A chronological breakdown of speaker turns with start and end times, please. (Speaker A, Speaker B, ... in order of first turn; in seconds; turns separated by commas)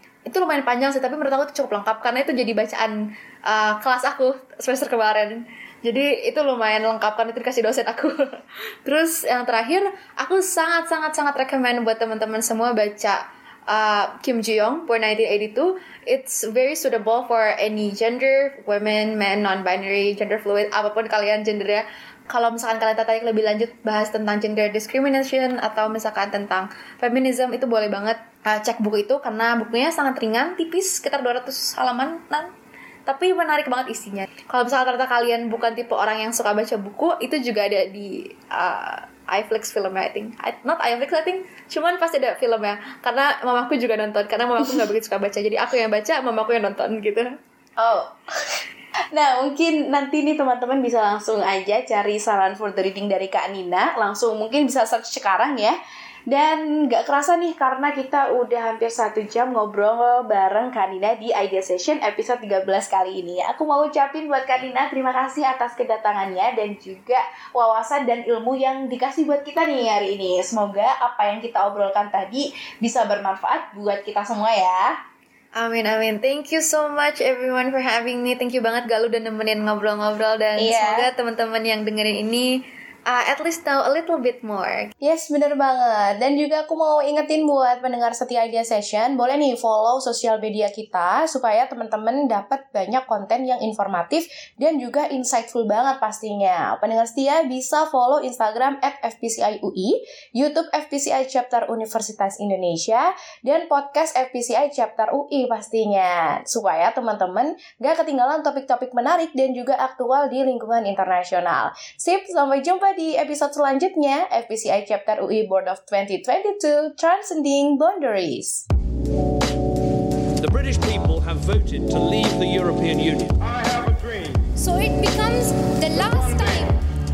Speaker A: 0.2-32.5, Speaker A: 33.0-47.3, Speaker B: 47.8-55.8, Speaker B: 56.3-74.9, Speaker A: 75.5-84.9, Speaker B: 80.6-81.1, Speaker B: 85.0-118.7, Speaker C: 120.4-123.5, Speaker D: 124.5-126.8